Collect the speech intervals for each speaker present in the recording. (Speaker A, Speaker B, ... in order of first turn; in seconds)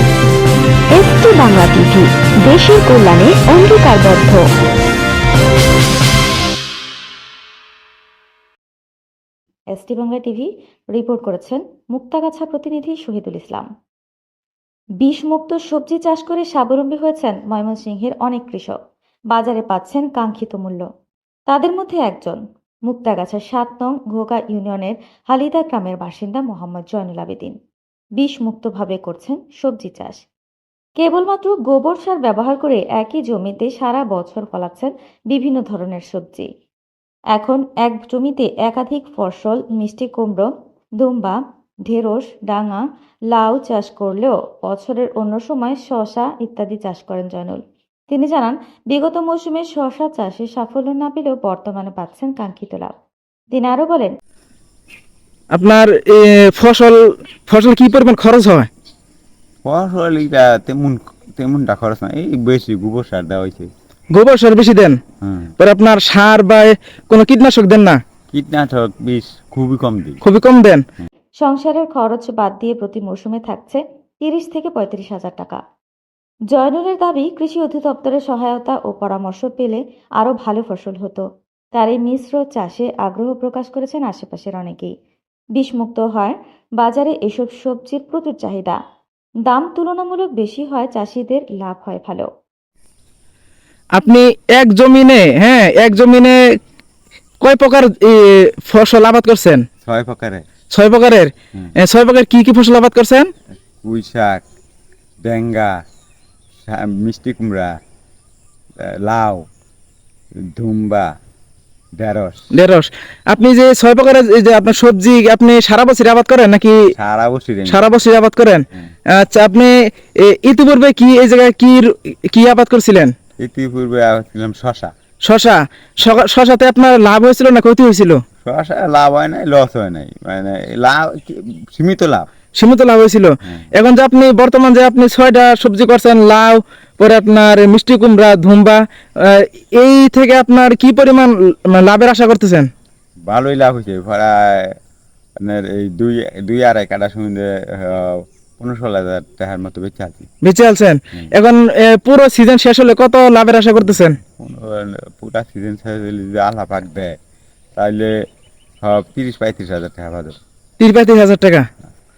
Speaker A: 1.0-4.4
Speaker B: 9.7-13.7, 15.0-18.8, 19.3-20.8, 21.5-27.5, 28.2-30.2, 31.0-36.5, 37.3-40.5, 41.0-52.9, 53.5-54.1, 71.4-75.6, 76.5-84.9, 85.5-88.8, 89.5-92.3
Speaker C: 55.5-57.0, 57.5-58.7, 64.1-65.0, 65.6-68.0, 70.2-70.8, 93.9-96.4, 97.4-99.6, 100.7-103.3, 112.5-116.7, 117.7-118.6, 119.1-123.1, 125.2-128.2, 132.6-142.7, 150.4-154.2, 160.8-161.6
Speaker D: 59.6-63.7, 65.2-65.5, 68.3-70.2, 99.8-100.4, 103.8-104.4, 105.2-105.8, 106.6-107.8, 108.8-109.5, 110.5-111.1, 112.0-112.5, 116.9-117.9, 123.4-124.9, 128.4-132.3, 143.2-144.8, 145.4-150.3, 153.8-157.2, 157.7-158.1, 158.8-160.4